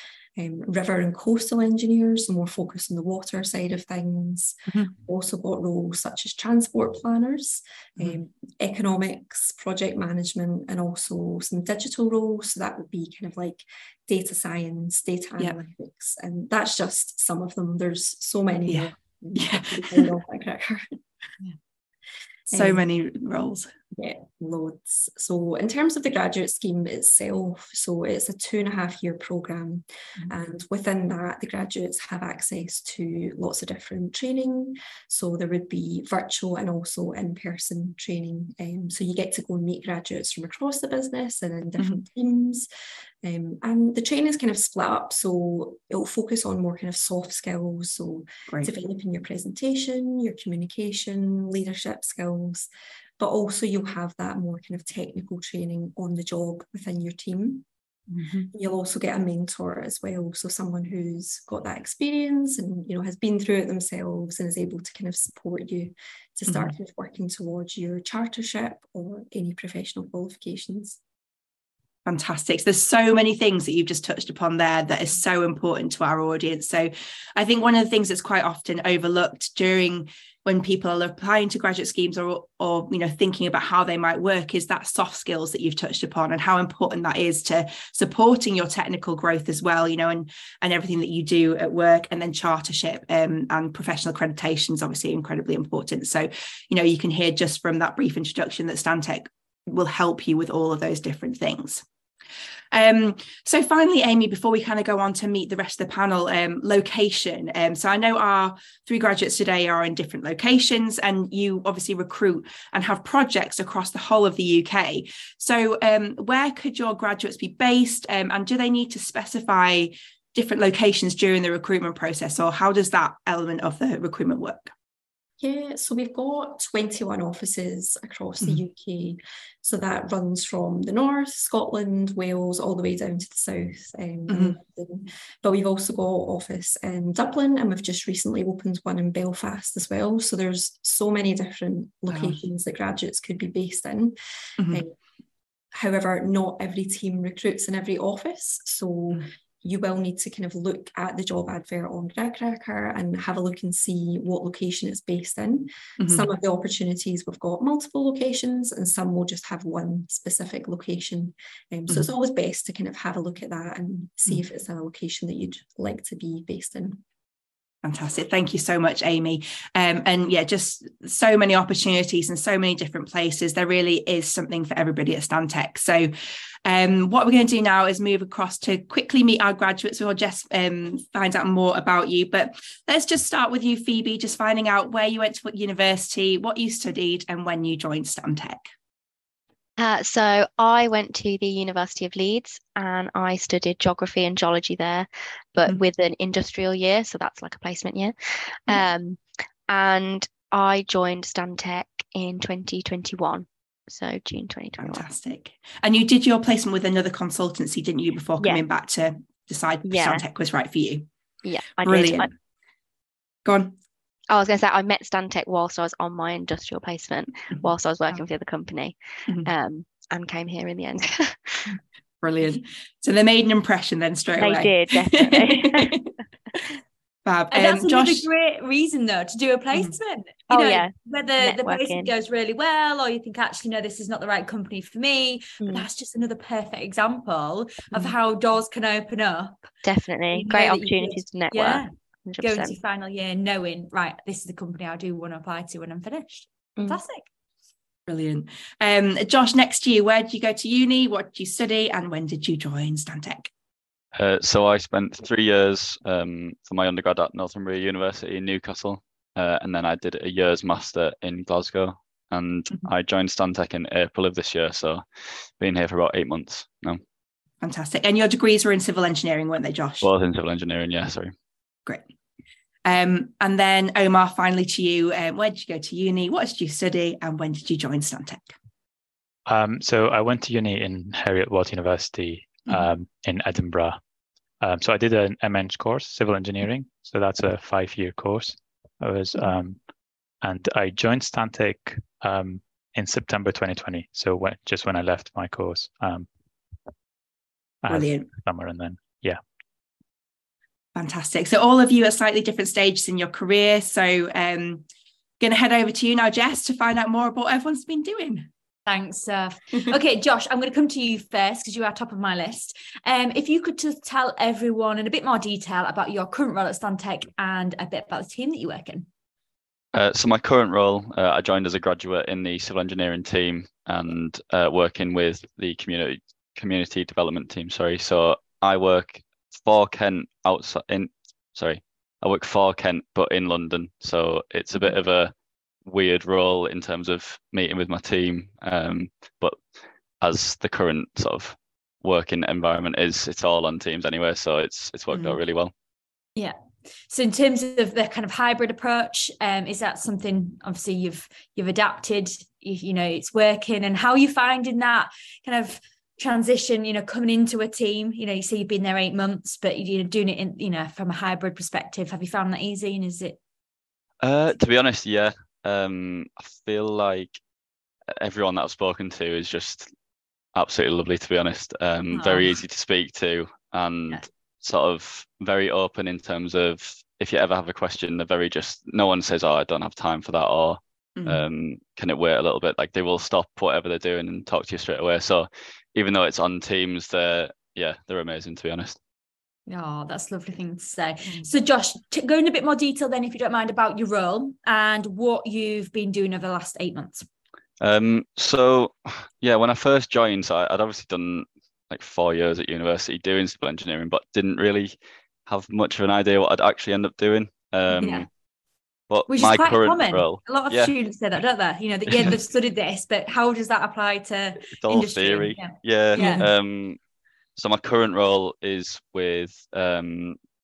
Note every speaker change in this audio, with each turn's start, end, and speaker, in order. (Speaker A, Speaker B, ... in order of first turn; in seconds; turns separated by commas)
Speaker A: 0.3-21.0, Speaker B: 18.7-20.1, Speaker A: 22.5-22.9, Speaker B: 22.5-23.7, Speaker A: 23.9-42.7, Speaker A: 43.2-52.7, Speaker A: 53.2-57.6, Speaker B: 58.1-58.5, Speaker A: 58.5-71.0, Speaker B: 66.5-66.7, Speaker B: 72.0-101.8, Speaker B: 102.7-124.7, Speaker A: 125.4-144.2, Speaker B: 134.3-134.6, Speaker B: 142.1-142.4, Speaker A: 144.7-144.9, Speaker A: 145.7-167.0, Speaker B: 156.0-156.2, Speaker B: 167.8-176.1, Speaker B: 176.6-188.6, Speaker C: 189.8-198.1, Speaker C: 198.7-205.1, Speaker B: 204.8-211.1, Speaker C: 209.8-210.2, Speaker C: 211.4-212.3, Speaker B: 211.8-212.3, Speaker B: 213.4-213.7, Speaker C: 214.3-218.9, Speaker C: 219.4-221.6, Speaker B: 222.2-226.1, Speaker C: 224.4-225.9, Speaker B: 227.2-228.3, Speaker D: 227.5-239.6, Speaker C: 230.5-232.1, Speaker C: 235.6-235.9, Speaker C: 239.8-242.8, Speaker D: 240.3-247.3, Speaker B: 248.1-253.5, Speaker E: 254.1-267.0, Speaker B: 267.6-270.1, Speaker E: 270.0-271.3, Speaker B: 272.8-278.5, Speaker F: 279.5-284.0, Speaker F: 284.6-289.8, Speaker F: 290.4-296.3, Speaker F: 297.8-299.4, Speaker B: 297.9-298.3, Speaker B: 300.9-304.9, Speaker B: 305.4-308.5, Speaker D: 308.9-319.1, Speaker E: 319.9-335.3, Speaker E: 335.8-339.6, Speaker E: 340.2-345.7, Speaker B: 345.1-345.4, Speaker D: 347.1-363.4, Speaker E: 364.2-367.4, Speaker E: 368.1-369.9, Speaker E: 370.5-389.0, Speaker D: 372.1-372.5, Speaker B: 381.1-381.4, Speaker D: 389.7-397.3, Speaker B: 391.2-391.5, Speaker E: 397.8-408.3, Speaker D: 408.0-408.2, Speaker E: 409.1-410.9, Speaker D: 409.3-416.5, Speaker E: 412.1-412.4, Speaker E: 414.8-417.0, Speaker B: 416.2-416.5, Speaker E: 417.6-420.4